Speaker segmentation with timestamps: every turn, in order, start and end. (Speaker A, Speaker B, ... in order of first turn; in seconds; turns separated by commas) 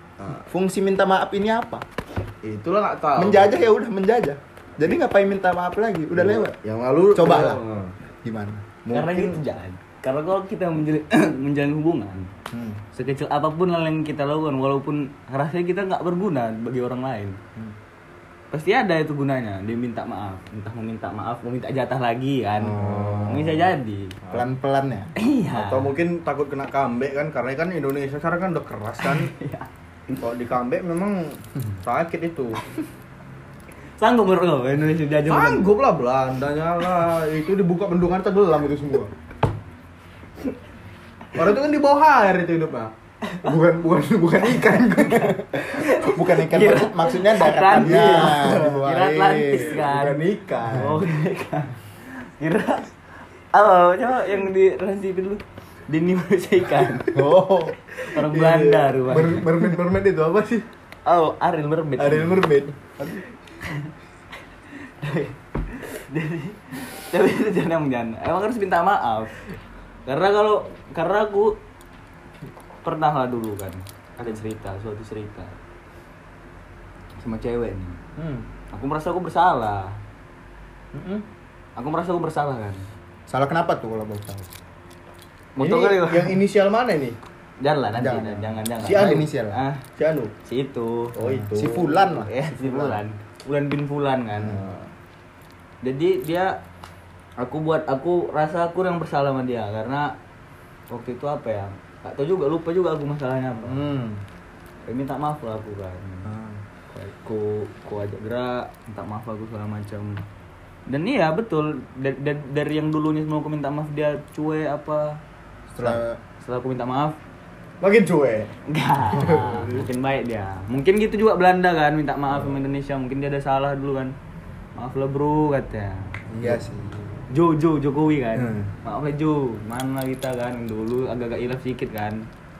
Speaker A: 0.5-1.8, Speaker B: 2.4-3.6, Speaker A: 3.2-6.5, Speaker B: 6.1-7.9, Speaker A: 7.1-7.6, Speaker A: 8.2-9.0, Speaker B: 8.9-9.4, Speaker C: 8.9-12.3, Speaker A: 12.5-12.8, Speaker C: 12.9-17.4, Speaker C: 18.5-24.2, Speaker A: 22.6-23.7, Speaker B: 22.8-23.5, Speaker A: 24.3-25.1, Speaker C: 25.2-25.9, Speaker B: 25.5-29.3, Speaker C: 29.0-29.7, Speaker B: 30.2-32.6, Speaker C: 34.0-35.7, Speaker B: 35.3-39.1, Speaker B: 41.3-45.2, Speaker A: 44.5-49.9, Speaker C: 45.0-50.2, Speaker B: 47.5-48.9, Speaker B: 49.5-51.0, Speaker C: 50.7-51.8, Speaker C: 52.4-52.9, Speaker C: 53.5-57.2, Speaker B: 57.1-60.6, Speaker C: 58.1-59.4, Speaker C: 61.0-62.5, Speaker B: 62.0-62.9, Speaker C: 63.6-63.9, Speaker C: 65.0-69.4, Speaker C: 70.0-71.6, Speaker C: 72.8-75.6, Speaker C: 77.2-80.0, Speaker C: 80.9-81.2, Speaker C: 81.8-82.8, Speaker A: 83.3-84.5, Speaker C: 85.5-86.4, Speaker B: 85.6-87.2, Speaker C: 87.6-89.8, Speaker A: 87.9-89.6, Speaker B: 88.8-89.2, Speaker B: 90.0-90.3, Speaker C: 90.4-91.1, Speaker B: 91.1-92.0, Speaker A: 91.2-93.0, Speaker C: 92.1-94.6, Speaker B: 94.4-94.9, Speaker C: 95.8-96.5, Speaker C: 97.4-100.1, Speaker C: 100.9-103.9, Speaker A: 103.7-104.2, Speaker C: 104.9-106.3, Speaker C: 106.9-110.2, Speaker C: 110.9-115.2, Speaker A: 115.7-116.2, Speaker C: 116.4-117.2, Speaker B: 117.8-118.5, Speaker C: 118.7-124.1, Speaker B: 119.1-119.8, Speaker C: 124.8-126.1, Speaker A: 126.3-127.1, Speaker C: 127.3-132.2, Speaker A: 128.3-128.7